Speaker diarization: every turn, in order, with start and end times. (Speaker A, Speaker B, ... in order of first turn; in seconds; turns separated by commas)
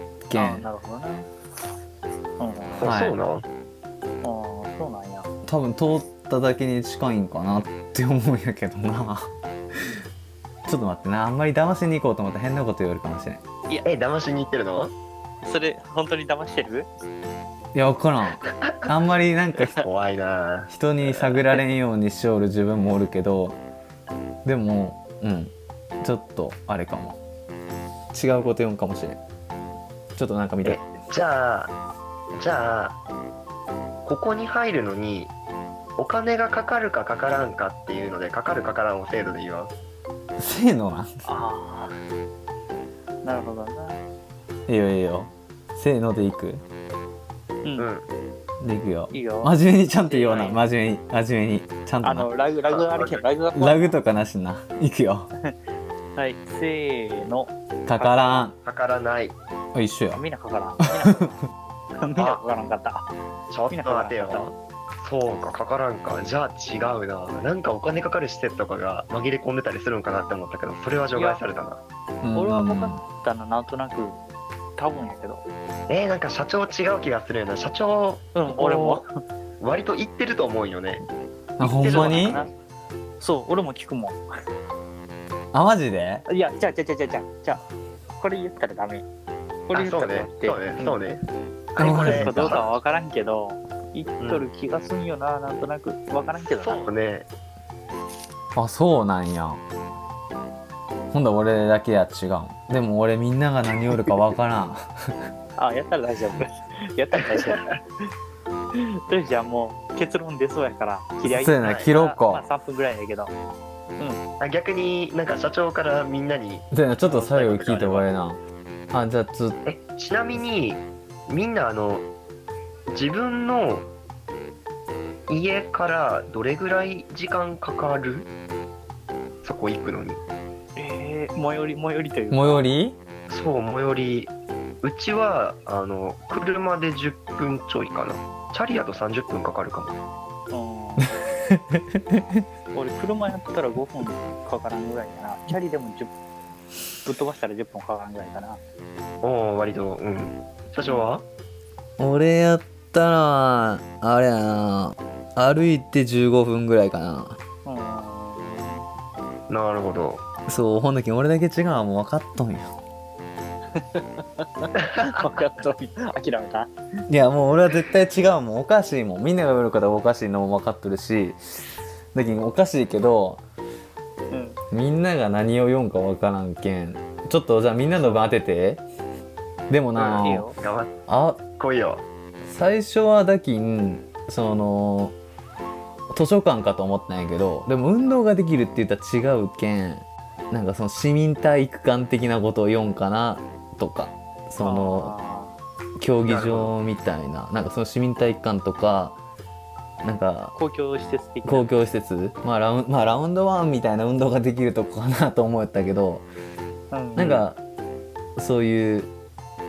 Speaker A: 0.3-0.7, Speaker B: 0.3-1.3, Speaker B: 2.4-3.0, Speaker C: 2.8-3.5, Speaker A: 2.8-3.1, Speaker B: 4.2-5.3, Speaker A: 5.4-9.3, Speaker A: 10.7-13.4, Speaker C: 13.8-14.9, Speaker B: 15.4-16.9, Speaker A: 17.7-19.8, Speaker C: 18.5-18.8, Speaker C: 19.8-20.7, Speaker A: 20.7-23.6, Speaker A: 24.4-27.2, Speaker A: 28.1-29.2, Speaker A: 30.1-30.8, Speaker C: 30.6-31.7, Speaker C: 32.4-33.0, Speaker C: 34.0-35.3, Speaker C: 36.0-39.7, Speaker A: 40.4-41.1, Speaker B: 41.2-42.0, Speaker B: 43.2-44.0, Speaker A: 44.7-46.6, Speaker B: 47.6-47.9, Speaker C: 47.8-48.1, Speaker A: 48.6-52.3, Speaker B: 49.1-49.5, Speaker B: 50.1-50.6, Speaker B: 52.0-54.0, Speaker C: 52.7-53.2, Speaker A: 53.5-55.3, Speaker B: 56.1-58.5, Speaker A: 57.9-58.5, Speaker C: 58.6-59.4, Speaker A: 59.7-60.2, Speaker B: 60.1-61.4, Speaker A: 60.8-61.1, Speaker B: 62.0-63.1, Speaker C: 62.1-62.4, Speaker C: 63.5-71.8, Speaker B: 63.7-64.5, Speaker B: 71.1-71.4, Speaker A: 72.2-73.0, Speaker B: 72.3-74.2, Speaker B: 74.8-75.4, Speaker C: 75.9-79.0, Speaker B: 78.3-79.0, Speaker C: 79.6-81.0, Speaker A: 81.6-82.4, Speaker C: 81.6-82.5, Speaker B: 81.8-82.5, Speaker B: 83.2-84.2, Speaker A: 85.5-86.2, Speaker B: 86.3-87.6, Speaker B: 88.2-89.0, Speaker B: 89.7-91.0, Speaker C: 89.7-91.2, Speaker C: 91.7-92.7, Speaker A: 91.8-92.6, Speaker B: 91.8-96.8, Speaker C: 94.2-94.5, Speaker C: 96.5-97.3, Speaker A: 98.5-99.6, Speaker A: 101.1-105.1, Speaker B: 105.6-107.7, Speaker C: 107.3-107.7, Speaker B: 108.7-113.3, Speaker A: 111.2-112.4, Speaker C: 111.6-111.9, Speaker C: 114.4-118.0, Speaker A: 116.7-118.4, Speaker A: 118.9-119.6, Speaker C: 119.6-122.1, Speaker C: 122.9-123.9, Speaker C: 125.3-128.3, Speaker C: 129.4-130.2, Speaker B: 130.8-132.7, Speaker A: 132.3-133.0, Speaker C: 133.3-139.9, Speaker B: 140.5-141.1, Speaker A: 141.0-142.4, Speaker B: 142.7-146.1, Speaker B: 147.0-148.6, Speaker C: 149.2-151.2, Speaker B: 150.8-151.1, Speaker A: 152.0-157.4, Speaker B: 157.6-158.8, Speaker C: 159.5-160.2, Speaker A: 160.4-162.7, Speaker B: 163.7-166.7, Speaker C: 164.8-165.4, Speaker A: 167.1-173.4, Speaker B: 174.3-174.6, Speaker A: 174.7-178.8, Speaker B: 178.0-178.3, Speaker A: 179.7-180.5, Speaker C: 179.9-180.9, Speaker B: 180.2-180.6, Speaker A: 181.1-181.4, Speaker C: 181.6-182.0, Speaker A: 182.4-185.2, Speaker A: 186.1-195.1, Speaker B: 194.6-195.6, Speaker A: 196.0-199.2, Speaker C: 196.2-196.7, Speaker A: 200.0-200.5, Speaker B: 200.5-201.7, Speaker A: 201.4-206.2, Speaker B: 206.9-207.4, Speaker A: 207.2-207.6, Speaker A: 208.3-209.1